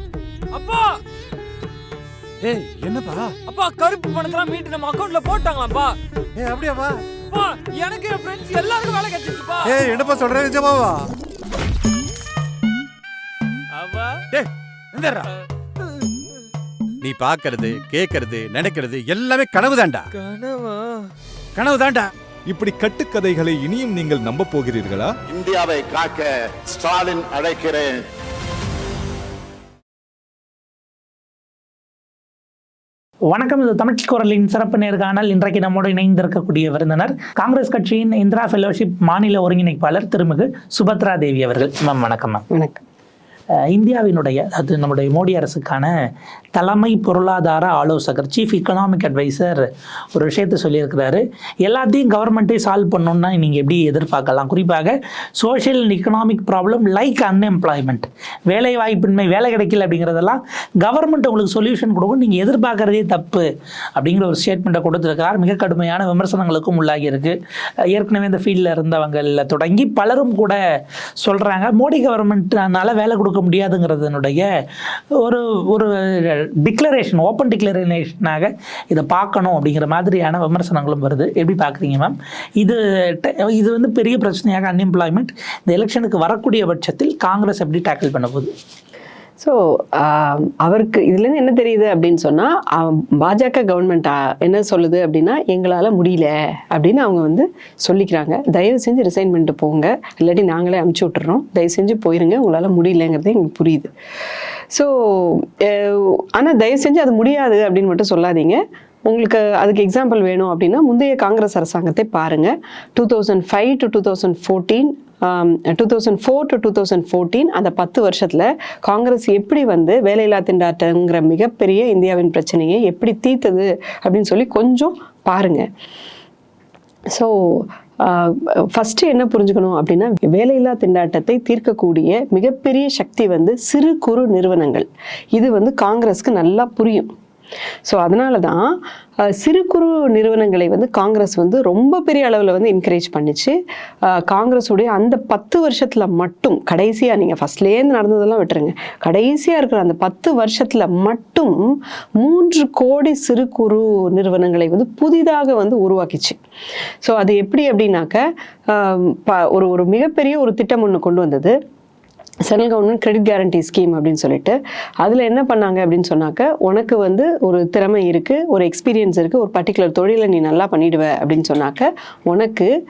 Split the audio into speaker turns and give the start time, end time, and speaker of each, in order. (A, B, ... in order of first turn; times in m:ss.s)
0:00.5-0:01.0 A
0:02.4-0:03.4 B
0:03.5-0:06.0 A
0:06.4-0:07.1 B
0:07.3-0:09.8 A
0:09.6-0:11.1 B
0:13.7-0:14.2 A
0:14.3-0:15.3 B
0:17.0-0:20.1 B
0:20.1-0:21.1 A
0:21.6-0:22.1 B
0:22.5-0:25.1 C
0:25.3-0:28.0 D
0:33.3-0:42.4 E
0:42.5-0:42.8 F
0:43.7-0:45.9 E
0:46.6-1:03.5 E
1:04.0-1:07.4 E
1:07.9-1:10.6 E
1:11.2-1:14.4 E
1:15.2-1:28.5 E
1:29.4-1:43.9 F
1:44.7-2:05.6 F
2:07.1-2:17.1 F
2:17.9-2:23.6 F
2:24.1-2:31.7 F
2:32.2-2:36.4 F
2:37.0-2:41.5 F
2:42.4-2:52.7 F